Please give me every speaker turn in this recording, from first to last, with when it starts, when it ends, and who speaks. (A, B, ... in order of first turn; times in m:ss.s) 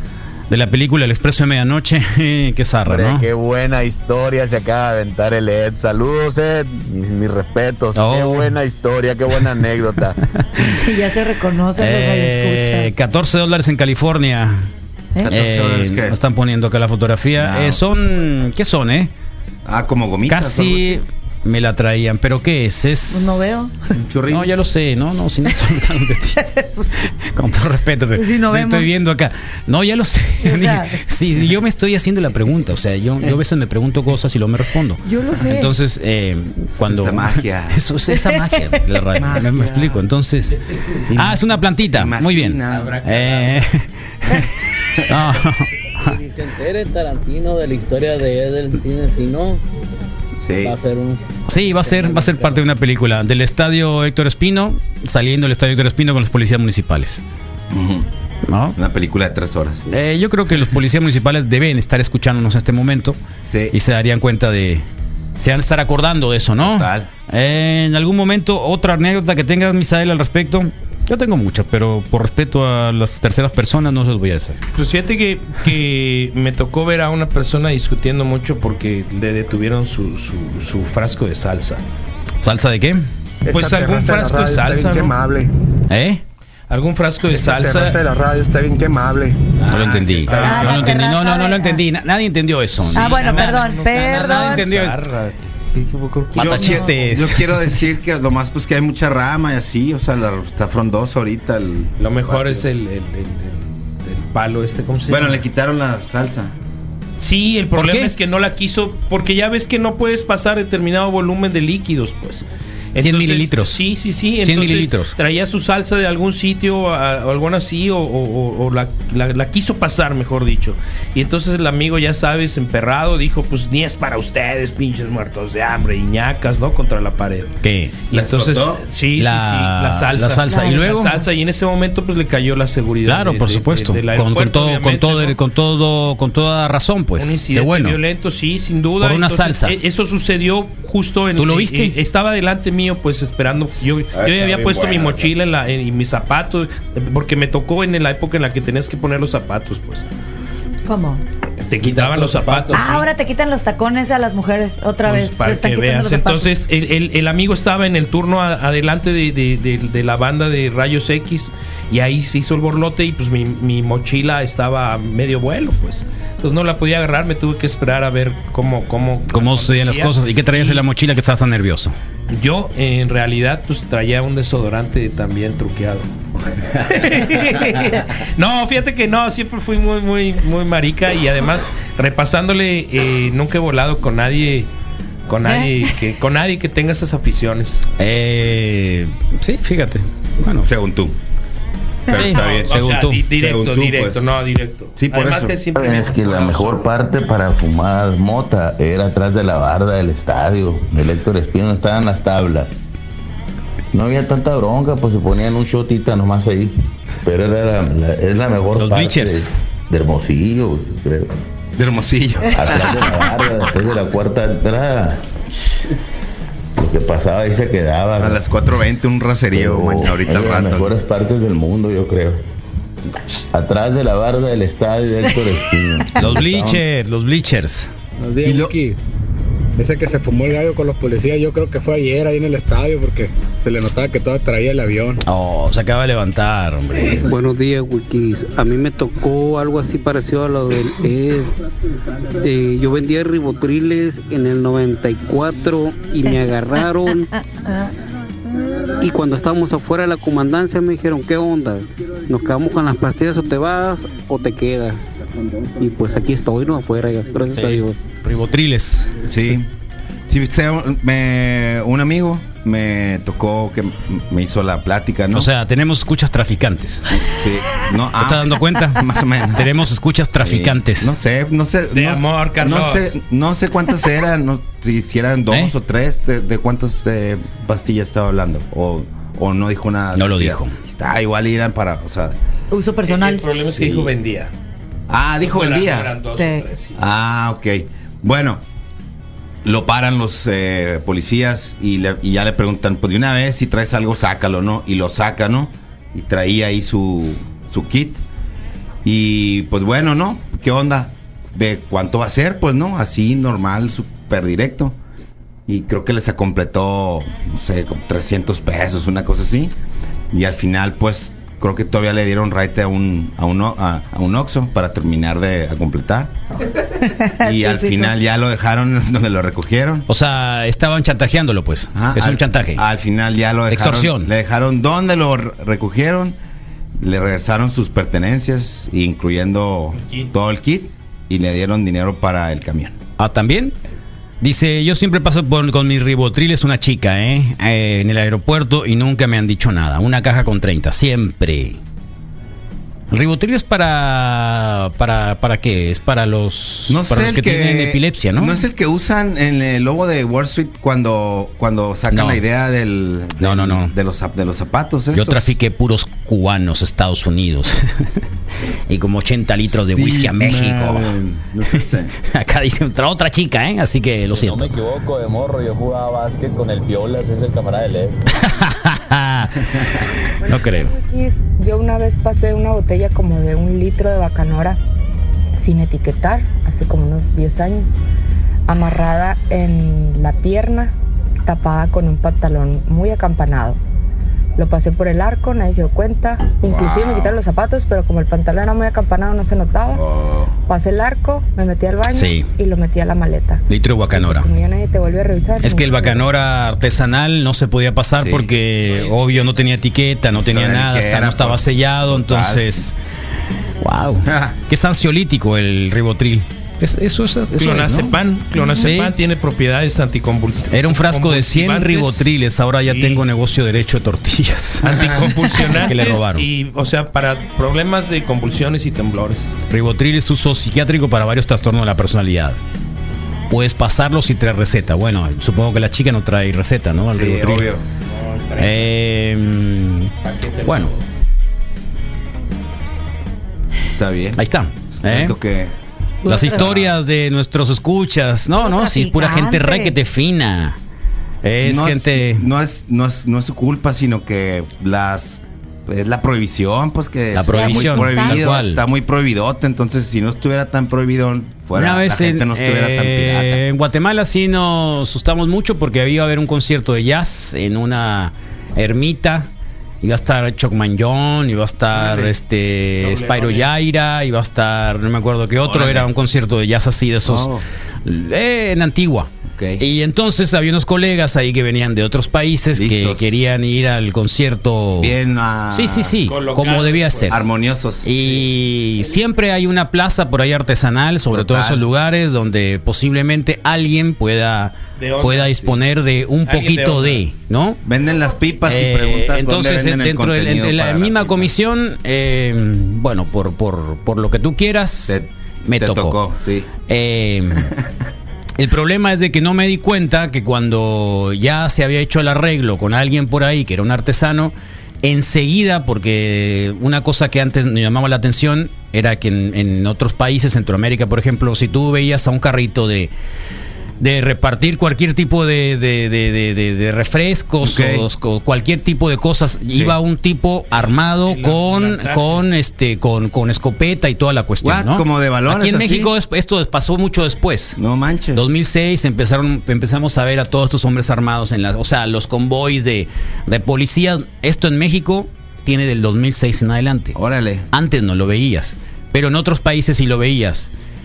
0:00.5-0:03.3 A
0:02.8-0:10.2 B
0:08.0-0:08.5 A
0:10.4-0:10.8 A
0:10.6-0:12.9 C
0:11.8-0:14.7 A
0:15.2-0:16.2 D
0:15.3-0:19.1 A
0:17.4-0:17.8 D
0:19.6-0:21.0 D
0:20.3-0:23.6 A
0:23.1-0:23.7 C
0:23.9-0:24.5 D
0:24.3-0:40.6 A
0:28.2-0:28.9 C
0:30.4-0:31.0 C
0:35.0-0:35.7 C
0:36.8-0:37.8 D
0:39.2-0:40.0 D
0:41.0-0:43.0 D
0:41.1-0:46.2 A
0:46.0-0:49.6 E
0:50.4-0:50.8 D
0:50.6-0:52.7 E
0:51.5-0:57.2 A
0:57.7-0:58.1 D
0:58.5-0:58.8 A
0:58.8-0:59.8 D
0:59.9-1:03.2 A
1:03.5-1:03.8 D
1:03.7-1:04.8 A
1:05.4-1:14.6 A
1:06.6-1:07.1 D
1:14.7-1:21.8 F
1:22.4-1:23.0 A
1:23.5-1:25.2 F
1:23.5-1:25.5 G
1:23.8-1:24.0 E
1:25.9-1:26.2 A
1:26.7-1:28.0 F
1:27.5-1:29.4 G
1:29.6-1:30.9 D
1:29.7-1:35.0 A
1:30.3-1:30.6 F
1:30.3-1:31.8 C
1:32.9-1:34.7 C
1:33.0-1:36.6 F
1:36.4-1:37.6 A
1:36.4-1:42.6 D
1:42.0-1:45.4 F
1:45.1-1:46.5 D
1:47.2-2:07.6 F
1:47.8-1:48.1 A
1:53.0-1:53.8 A
1:54.4-1:55.1 A
2:07.6-2:08.0 A
2:08.1-2:15.4 F
2:08.1-2:08.8 D
2:09.2-2:11.2 A
2:10.5-2:11.1 C
2:13.1-2:18.0 A
2:17.2-2:30.1 F
2:19.0-2:19.8 A
2:21.4-2:22.0 A
2:24.1-2:25.3 D
2:30.9-2:31.2 C
2:31.7-2:33.1 F
2:31.8-2:33.0 D
2:32.7-2:36.6 C
2:35.0-2:50.8 F
2:49.3-2:52.0 A
2:52.3-2:56.1 F
2:56.8-3:04.7 F
3:05.3-3:07.8 F
3:08.0-3:10.7 A
3:10.6-3:11.2 D
3:12.1-3:12.8 D
3:12.1-3:13.2 A
3:12.2-3:16.9 F
3:13.3-3:14.3 D
3:15.0-3:15.6 D
3:15.7-3:22.7 H
3:23.9-3:31.3 H
3:28.8-3:29.4 A
3:31.8-3:33.3 D
3:32.5-3:35.2 H
3:36.8-3:38.4 H
3:38.2-3:41.0 D
3:39.5-3:42.4 H
3:43.5-3:46.8 H
3:46.2-3:47.9 A
3:48.2-3:48.9 G
3:48.4-3:48.7 D
3:49.8-3:55.1 G
3:55.2-3:57.3 A
3:57.3-4:01.5 I
4:02.4-4:07.3 I
4:09.0-4:15.2 I
4:15.8-4:18.0 I
4:17.5-4:19.2 A
4:19.3-4:19.7 D
4:20.3-4:25.5 D
4:25.3-4:27.1 A
4:27.1-4:29.7 D
4:28.2-4:31.1 A
4:30.4-4:42.4 D
4:31.9-4:33.1 F
4:40.1-4:40.8 A
4:42.7-4:43.5 C
4:43.0-4:44.5 F
4:43.8-4:44.1 D
4:45.1-4:46.2 D
4:45.4-4:47.0 F
4:46.4-4:46.6 C
4:47.0-4:48.6 D
4:49.6-4:58.2 D
4:59.0-5:05.0 D
5:05.7-5:09.7 D
5:10.3-5:16.3 D
5:17.0-5:18.1 C
5:17.4-5:20.1 D
5:20.1-5:22.8 A
5:22.0-5:26.4 D
5:23.7-5:24.3 A
5:27.0-5:33.0 D
5:30.0-5:30.3 F
5:33.2-5:33.8 A
5:34.4-5:41.8 A
5:43.1-5:48.6 A
5:46.9-5:55.5 D
5:52.1-5:52.4 A
5:53.4-5:53.9 A
5:55.1-5:58.0 A
5:58.9-6:01.2 A
5:59.7-6:02.1 D
6:02.2-6:04.7 A
6:04.2-6:08.2 B
6:08.4-6:10.9 A
6:10.4-6:14.8 J
6:15.6-6:18.0 J
6:18.7-6:20.9 J
6:21.4-6:23.8 J
6:24.6-6:30.0 J
6:26.6-6:27.4 D
6:29.9-6:30.5 D
6:30.7-6:36.3 J
6:32.1-6:32.5 A
6:33.7-6:34.5 A
6:35.6-6:42.9 A
6:38.2-6:38.5 D
6:38.9-6:39.7 F
6:40.3-6:42.8 D
6:43.8-6:48.1 A
6:44.2-6:44.6 D
6:47.6-6:52.3 F
6:48.8-6:49.1 A
6:50.7-6:56.5 A
6:52.9-6:53.2 F
6:54.8-6:59.5 F
6:59.7-7:02.6 A
7:03.5-7:07.7 A
7:07.1-7:07.8 D
7:08.1-7:08.9 F
7:08.6-7:10.9 A
7:10.2-7:11.0 F
7:13.8-7:14.4 D
7:14.4-7:15.4 A
7:14.9-7:15.7 D
7:16.2-7:16.7 C
7:16.3-7:20.8 A
7:16.4-7:16.9 D
7:18.6-7:20.0 C
7:21.4-7:22.5 A
7:21.6-7:33.6 D
7:27.3-7:28.8 A
7:27.5-7:28.5 C
7:31.7-7:39.5 A
7:40.0-7:47.5 A
7:41.9-7:42.3 F
7:43.0-7:43.7 F
7:45.6-7:46.1 D
7:47.3-7:47.6 D
7:48.0-7:55.1 A
7:49.5-7:49.8 D
7:52.8-7:53.4 D
7:55.0-7:56.2 D
7:55.7-7:57.4 A
7:56.3-7:57.4 F
7:57.3-7:58.1 D
7:58.0-8:07.8 A
8:01.3-8:01.8 D
8:05.0-8:05.5 F
8:05.2-8:05.8 D
8:06.5-8:07.2 F
8:07.8-8:11.5 D
8:08.6-8:16.2 A
8:15.1-8:16.7 D
8:16.9-8:17.7 A
8:18.6-8:33.1 A
8:34.0-8:47.8 A
8:37.6-8:38.1 D
8:40.7-8:42.5 F
8:44.6-8:46.1 D
8:47.8-8:48.5 D
8:48.3-8:57.2 A
8:57.2-8:57.7 D
8:57.7-9:00.7 A